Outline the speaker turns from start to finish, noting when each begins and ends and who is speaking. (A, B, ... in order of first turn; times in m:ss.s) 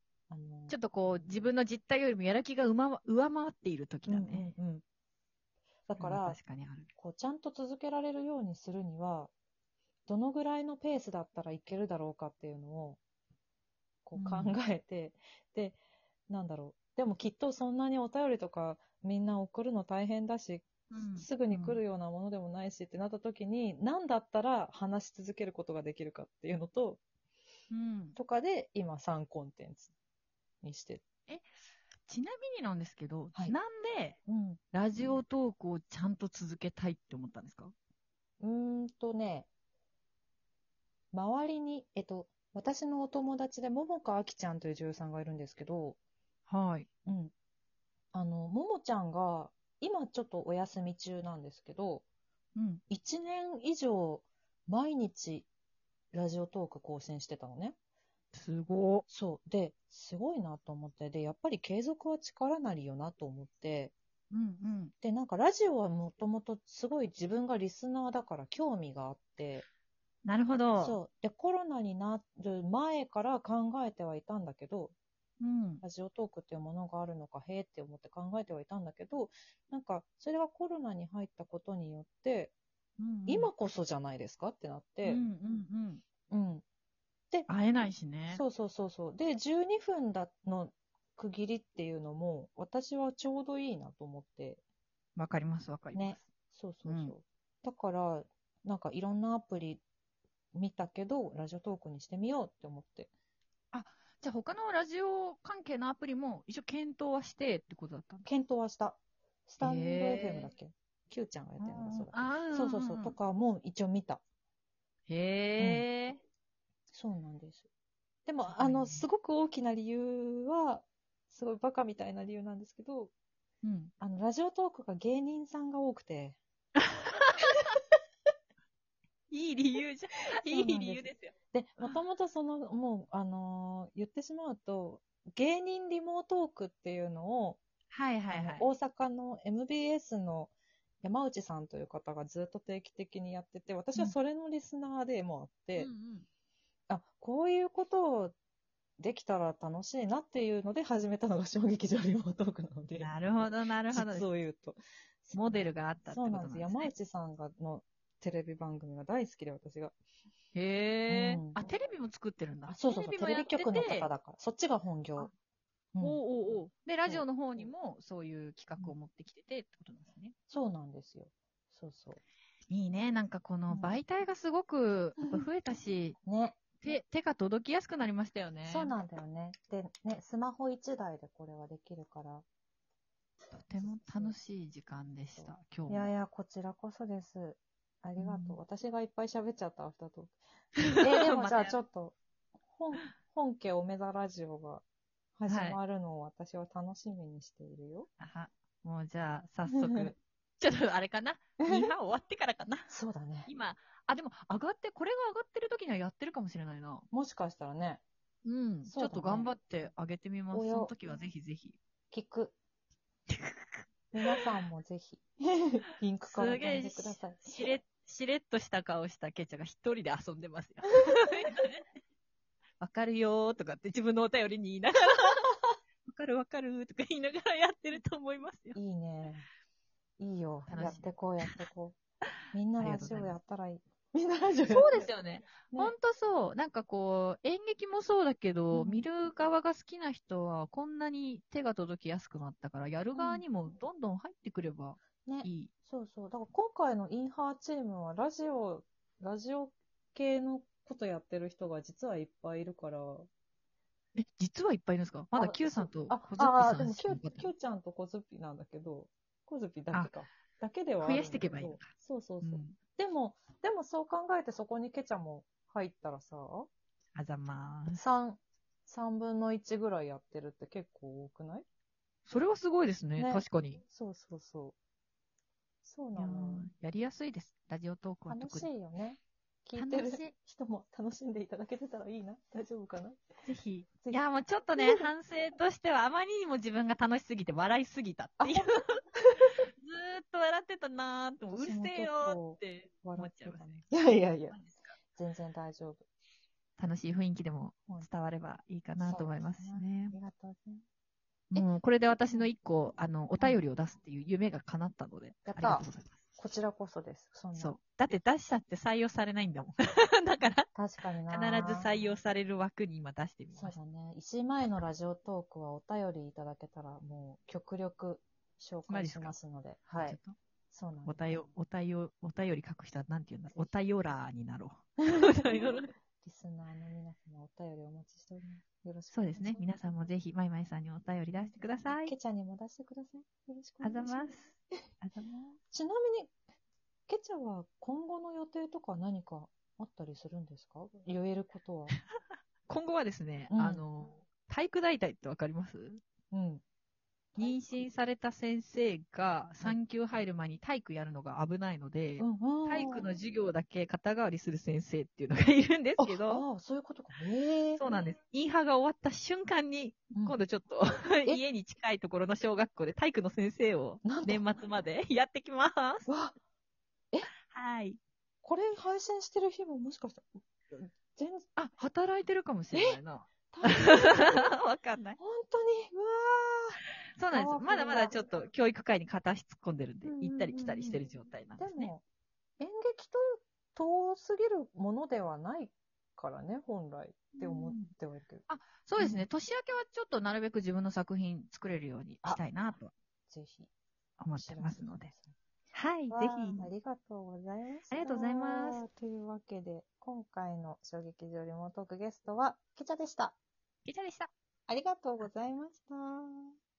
0:00.3-0:01.5 A
0:00.7-0:04.5 B
0:04.1-0:04.8 A
0:05.9-0:06.4 A
0:06.0-0:06.9 B
0:07.0-0:09.3 A
0:10.1-0:13.0 A
0:14.0-0:15.8 A
0:14.2-0:14.6 B
0:16.3-0:27.0 A
0:20.9-0:21.8 B
0:27.7-0:28.2 B
0:28.2-0:29.9 A
0:30.6-0:31.0 A
0:32.1-0:34.2 B
0:34.3-0:35.2 A
0:34.7-0:37.7 B
0:38.4-0:39.5 A
0:41.1-0:46.0 A
0:46.5-0:46.9 B
0:47.0-0:47.3 A
0:48.1-0:52.0 A
0:52.6-0:52.8 B
0:52.9-0:55.5 A
0:56.1-0:57.8 A
0:58.3-0:59.0 B
0:59.1-1:03.9 A
1:04.3-1:04.9 B
1:05.0-1:09.6 A
1:10.2-1:11.0 B
1:10.8-1:14.9 A
1:15.4-1:15.8 B
1:15.8-1:22.5 A
1:23.0-1:23.5 B
1:23.3-1:25.2 A
1:25.0-1:26.0 B
1:26.3-1:26.6 A
1:27.5-1:28.4 B
1:28.3-1:34.6 A
1:35.2-1:36.3 B
1:35.9-1:39.8 A
1:36.8-1:37.1 B
1:40.5-1:43.1 A
1:43.7-1:48.3 B
1:48.2-1:54.2 A
1:49.6-1:50.5 B
1:51.6-1:53.2 B
1:55.1-1:56.2 B
1:55.6-1:55.8 A
1:56.9-1:57.6 A
1:58.2-2:03.1 A
1:58.5-1:59.1 B
2:03.6-2:03.9 B
2:04.0-2:06.4 A
2:06.8-2:07.7 B
2:09.3-2:11.3 B
2:10.4-2:17.6 A
2:17.9-2:18.7 B
2:18.3-2:25.9 A
2:25.8-2:26.3 B
2:26.9-2:28.4 A
2:29.0-2:39.9 A
2:33.0-2:34.3 B
2:35.3-2:36.9 B
2:40.5-2:44.1 B
2:41.1-2:41.6 A
2:42.7-2:45.3 A
2:45.9-2:46.2 A
2:46.0-2:50.3 B
2:47.0-2:47.7 A
2:50.5-2:52.2 A
2:52.7-2:56.2 B
2:53.7-2:54.0 A
2:55.2-2:55.4 A
2:56.2-2:56.6 A
2:56.8-2:58.9 B
2:58.6-3:02.4 A
3:03.5-3:06.1 B
3:03.8-3:04.4 A
3:05.4-3:10.4 A
3:08.2-3:08.6 B
3:10.8-3:11.8 B
3:11.0-3:12.1 A
3:12.7-3:14.8 A
3:15.4-3:18.1 A
3:15.5-3:15.8 B
3:18.2-3:22.9 B
3:19.7-3:20.1 A
3:21.6-3:21.9 A
3:22.9-3:23.5 A
3:23.4-3:27.1 B
3:27.1-3:28.0 A
3:28.4-3:31.8 B
3:28.8-3:29.5 A
3:30.5-3:30.9 A
3:32.1-3:32.5 A
3:33.3-3:33.8 B
3:34.1-3:37.6 A
3:36.2-3:41.8 B
3:42.8-3:48.8 B
3:48.7-3:49.5 A
3:50.2-3:52.0 A
3:50.7-3:51.5 B
3:52.5-3:55.1 A
3:52.8-3:53.4 B
3:54.6-4:05.7 B
3:55.7-3:55.9 A
3:58.7-3:59.0 A
4:03.1-4:03.4 A
4:05.2-4:13.3 A
4:14.1-4:17.5 B
4:15.3-4:26.7 A
4:21.0-4:21.9 B
4:22.4-4:22.8 B
4:27.1-4:28.0 B
4:27.9-4:31.6 A
4:32.2-4:33.8 B
4:33.2-4:34.7 A
4:35.8-4:36.7 A
4:36.2-4:38.7 B
4:38.3-4:43.2 A
4:39.7-4:40.3 B
4:43.4-4:49.0 B
4:44.8-4:45.1 A
4:49.2-4:49.5 A
4:49.8-4:53.9 B
4:51.6-4:56.0 A
4:54.5-4:55.0 B
4:56.8-5:00.1 B
4:59.0-5:00.8 A
5:01.5-5:06.2 B
5:05.4-5:05.8 A
5:06.4-5:07.8 A
5:07.5-5:10.7 B
5:10.7-5:11.9 A
5:11.3-5:13.8 B
5:13.6-5:20.2 A
5:18.9-5:19.4 B
5:20.0-5:20.4 B
5:20.7-5:21.4 A
5:21.0-5:25.9 B
5:25.1-5:25.6 A
5:26.2-5:29.6 A
5:29.1-5:32.1 B
5:31.9-5:34.3 A
5:33.8-5:35.5 B
5:35.7-5:36.3 A
5:37.1-5:42.0 A
5:42.7-5:46.0 B
5:43.5-5:43.8 A
5:46.3-5:46.6 A
5:47.3-5:47.8 A
5:47.4-5:56.4 B
5:52.2-5:53.1 A
5:56.0-5:57.8 A
5:57.8-6:06.0 B
6:00.1-6:00.4 A
6:04.0-6:04.4 A
6:06.0-6:06.4 A
6:07.5-6:08.0 B
6:08.4-6:11.5 A
6:11.6-6:15.2 B
6:13.5-6:14.5 A
6:15.2-6:18.1 A
6:17.2-6:21.9 B
6:20.0-6:21.0 A
6:21.6-6:22.0 A
6:22.6-6:28.4 A
6:27.3-6:27.9 B
6:28.5-6:32.9 B
6:29.0-6:29.2 A
6:33.3-6:33.7 A
6:34.2-6:35.1 B
6:34.3-6:35.4 A
6:35.7-6:36.7 B
6:36.1-6:43.4 A
6:37.9-6:38.8 B
6:43.8-6:44.3 B
6:44.7-6:46.5 A